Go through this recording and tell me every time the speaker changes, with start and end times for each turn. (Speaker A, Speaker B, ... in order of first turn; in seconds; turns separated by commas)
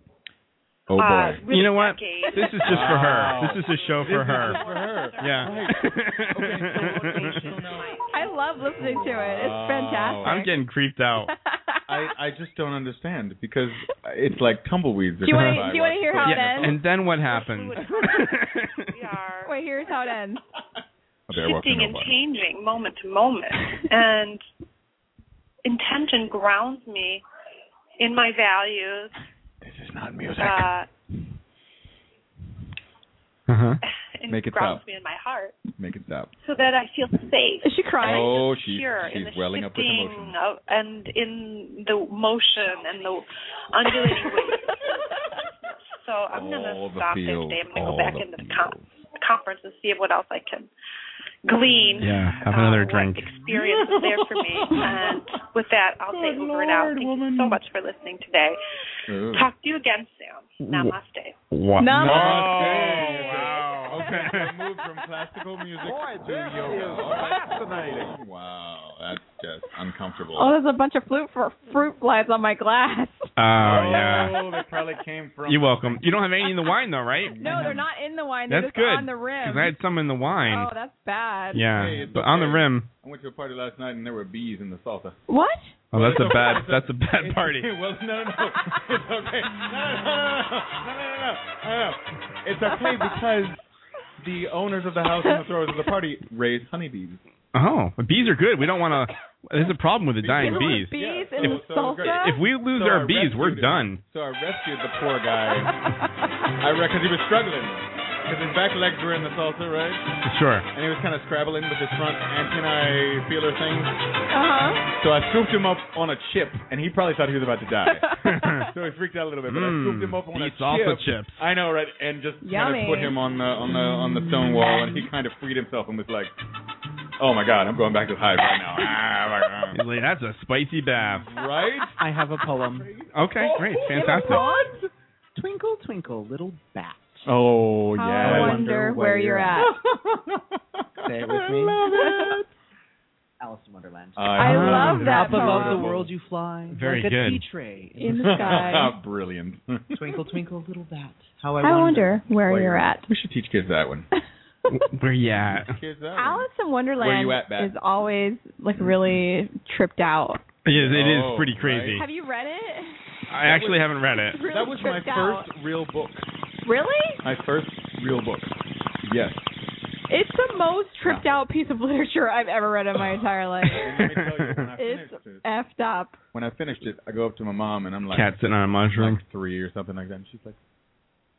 Speaker A: 0.9-1.4, Speaker B: 0.9-5.7, Speaker C: 1.5-4.6, Speaker A: 2.6-8.0, Speaker C: 5.2-7.5, Speaker B: 7.0-8.3, Speaker D: 8.1-10.5, Speaker A: 8.8-10.4, Speaker C: 10.2-11.3, Speaker D: 11.4-11.8, Speaker A: 11.9-16.8, Speaker D: 15.2-16.8, Speaker C: 15.3-15.7, Speaker C: 16.2-18.8, Speaker B: 17.1-20.0, Speaker D: 19.4-20.4, Speaker A: 21.3-22.2, Speaker B: 21.3-24.4, Speaker B: 25.6-27.2, Speaker B: 28.0-29.1, Speaker A: 29.6-30.7, Speaker B: 30.4-30.9, Speaker C: 33.5-33.8, Speaker B: 33.9-35.6, Speaker A: 34.3-34.8, Speaker A: 35.7-36.3, Speaker B: 36.4-44.9, Speaker D: 37.6-38.4, Speaker A: 38.0-40.4, Speaker B: 46.0-50.7, Speaker A: 46.3-48.9, Speaker B: 51.4-58.6, Speaker A: 52.0-52.5, Speaker C: 52.0-53.3, Speaker A: 53.4-55.3, Speaker A: 56.1-57.6, Speaker A: 59.1-59.5, Speaker B: 59.3-61.4, Speaker C: 60.6-60.9, Speaker C: 61.5-64.5, Speaker D: 61.8-62.7, Speaker A: 61.9-70.5, Speaker E: 65.9-67.8, Speaker D: 70.3-73.3, Speaker C: 73.4-74.3, Speaker A: 73.6-76.0, Speaker C: 75.5-77.8, Speaker A: 77.2-77.8, Speaker D: 77.4-79.7, Speaker C: 78.5-80.7, Speaker D: 80.4-81.7, Speaker C: 81.5-82.9, Speaker A: 81.7-85.2, Speaker D: 85.3-85.7, Speaker C: 85.9-87.7, Speaker A: 85.9-93.6, Speaker D: 92.7-93.1, Speaker A: 94.2-97.2, Speaker C: 97.5-104.0, Speaker A: 100.2-105.7, Speaker D: 100.4-102.4, Speaker A: 106.6-110.1, Speaker C: 110.3-110.7, Speaker A: 110.7-114.0, Speaker D: 114.3-114.8, Speaker A: 114.9-118.0, Speaker D: 118.0-118.5, Speaker C: 118.2-118.7, Speaker A: 118.7-126.3, Speaker C: 119.5-121.4, Speaker D: 122.4-123.1, Speaker A: 127.2-129.8, Speaker C: 129.7-131.3, Speaker A: 131.3-131.9, Speaker E: 132.0-132.9, Speaker A: 132.6-134.4, Speaker C: 133.1-134.4, Speaker E: 133.7-137.3, Speaker A: 137.2-138.6, Speaker D: 138.0-139.7, Speaker E: 138.2-139.7, Speaker A: 139.6-140.4, Speaker A: 141.0-142.4, Speaker E: 141.0-142.1, Speaker D: 141.9-142.3, Speaker E: 143.4-148.9, Speaker A: 144.2-146.1, Speaker D: 144.4-145.8, Speaker C: 144.4-145.1, Speaker C: 146.7-147.4, Speaker D: 148.0-148.9, Speaker A: 148.2-149.9, Speaker E: 149.9-152.8, Speaker D: 151.6-153.1, Speaker A: 152.5-154.1, Speaker C: 154.7-155.7, Speaker A: 155.3-157.7, Speaker D: 156.2-160.4, Speaker C: 160.6-162.0, Speaker A: 160.7-162.0, Speaker D: 161.9-163.0, Speaker C: 163.3-164.4, Speaker A: 163.4-166.3, Speaker D: 164.3-165.5, Speaker D: 166.6-167.2, Speaker A: 167.2-169.5, Speaker D: 170.1-173.8, Speaker A: 173.7-175.4, Speaker D: 174.8-176.2, Speaker A: 176.3-178.3, Speaker C: 178.1-179.2, Speaker A: 178.9-180.6